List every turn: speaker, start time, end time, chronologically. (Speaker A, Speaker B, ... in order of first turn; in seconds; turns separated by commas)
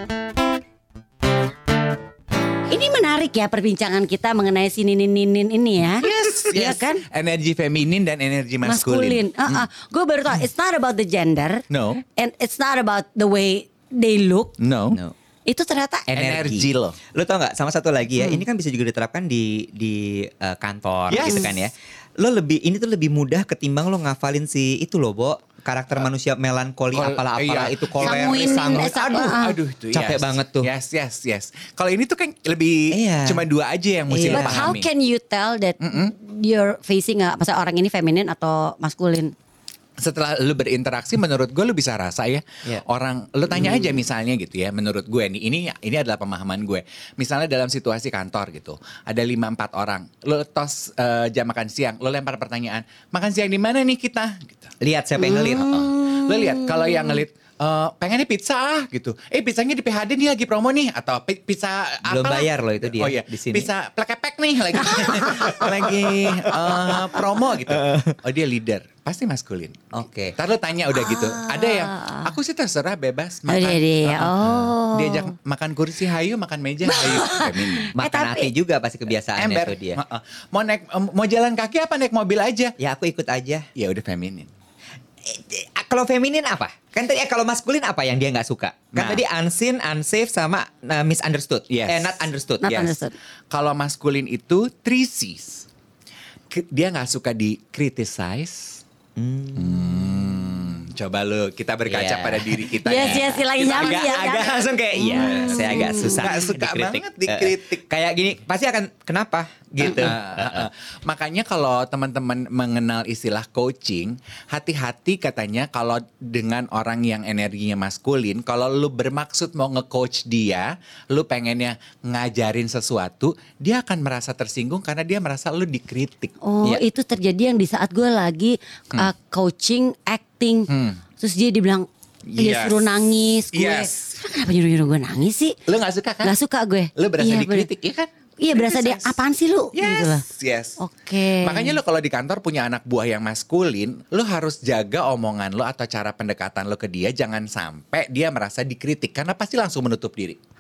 Speaker A: 2.7-7.0, Speaker B: 6.0-9.7, Speaker A: 8.7-14.6, Speaker B: 11.7-12.0, Speaker B: 14.6-15.0, Speaker A: 15.5-16.1, Speaker C: 16.1-30.7, Speaker B: 16.1-17.0, Speaker B: 21.1-21.7, Speaker B: 26.9-34.9, Speaker A: 28.0-29.6, Speaker C: 32.9-33.4, Speaker C: 34.1-34.8, Speaker A: 34.2-39.3, Speaker B: 35.8-36.1, Speaker B: 40.0-54.7, Speaker C: 43.5-43.8, Speaker C: 54.8-55.8, Speaker A: 55.2-57.2, Speaker B: 55.3-69.8, Speaker C: 62.0-63.7, Speaker A: 64.8-65.3, Speaker C: 64.8-68.2, Speaker C: 69.9-70.3, Speaker B: 70.4-77.9, Speaker A: 70.9-72.3, Speaker A: 73.5-75.3, Speaker A: 76.9-78.5, Speaker C: 78.0-80.0, Speaker B: 79.4-82.8, Speaker C: 82.8-83.7, Speaker B: 83.8-84.5, Speaker C: 85.2-93.0, Speaker B: 88.9-89.2, Speaker B: 91.7-92.3, Speaker A: 92.6-93.1, Speaker B: 93.5-95.7, Speaker B: 96.5-98.8, Speaker C: 99.2-100.2, Speaker B: 99.5-104.1, Speaker C: 101.9-110.7, Speaker A: 102.8-106.3, Speaker B: 105.1-107.8, Speaker B: 109.8-126.3, Speaker A: 126.4-135.6, Speaker B: 130.7-131.0, Speaker B: 132.3-132.9, Speaker B: 133.5-134.2, Speaker B: 135.7-136.3, Speaker A: 136.2-137.7, Speaker B: 137.0-139.2, Speaker A: 138.4-140.2, Speaker B: 139.7-140.8, Speaker A: 140.8-141.8, Speaker B: 141.4-150.4